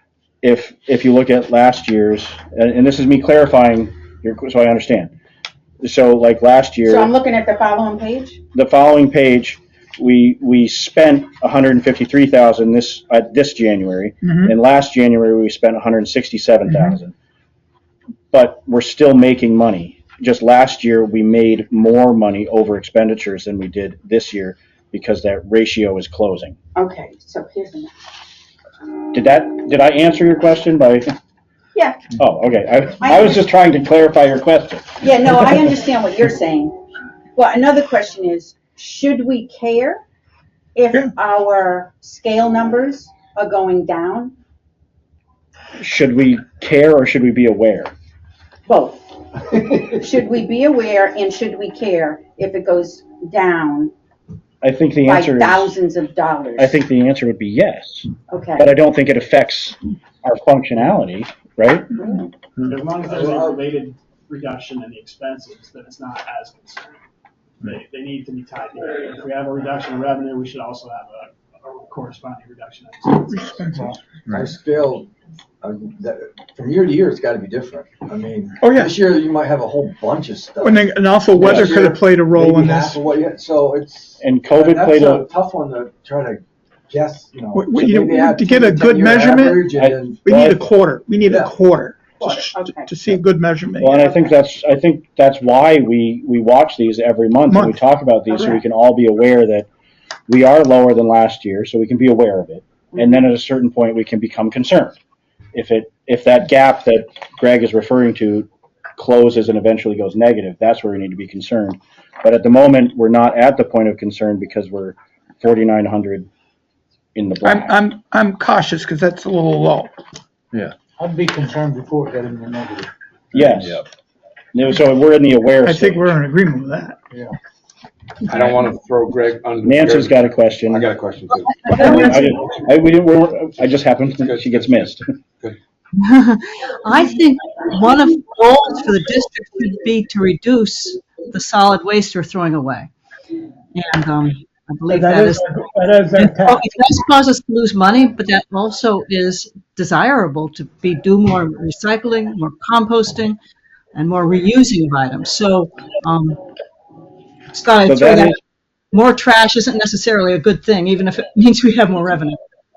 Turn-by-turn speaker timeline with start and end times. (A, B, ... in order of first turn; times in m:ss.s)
0:00.4-0:05.1 A
0:05.8-0:07.1 A
0:06.8-0:08.4 B
0:08.5-0:17.1 A
0:14.2-0:14.5 C
0:18.3-0:26.6 A
0:26.8-0:27.9 B
0:29.1-0:31.0 A
0:31.7-0:32.1 B
0:32.2-0:35.2 A
0:33.0-0:33.4 B
0:35.0-0:36.8 B
0:37.4-0:40.0 B
0:40.7-0:44.3 B
0:45.8-0:47.9 A
0:48.6-0:53.9 B
0:54.6-0:55.7 A
0:55.0-0:56.8 B
0:56.6-1:01.9 A
0:58.3-0:58.7 B
1:01.9-1:02.3 B
1:02.7-1:07.0 D
1:03.1-1:03.6 E
1:07.6-1:13.9 D
1:13.3-1:13.9 C
1:14.3-1:15.1 E
1:15.6-1:20.8 E
1:18.6-1:19.0 C
1:20.6-1:23.0 C
1:21.4-1:30.2 E
1:24.2-1:25.2 A
1:27.5-1:33.9 C
1:29.8-1:30.7 A
1:32.2-1:32.9 B
1:33.8-1:39.7 A
1:33.9-1:34.3 B
1:37.5-1:37.8 C
1:38.3-1:38.6 B
1:40.3-1:45.0 A
1:45.5-1:56.3 A
1:57.1-1:57.8 A
1:57.4-1:59.9 C
2:00.8-2:02.9 F
2:03.3-2:03.8 A
2:04.5-2:06.1 A
2:05.6-2:07.0 C
2:08.3-2:12.1 G
2:09.6-2:10.9 A
2:11.7-2:15.0 A
2:11.8-2:12.1 H
2:14.2-2:15.6 G
2:16.0-2:22.9 H
2:23.7-2:33.4 H
2:24.9-2:26.6 C
2:33.9-2:36.4 H
2:37.5-2:38.3 H
2:37.9-2:38.3 A
2:38.9-2:42.4 H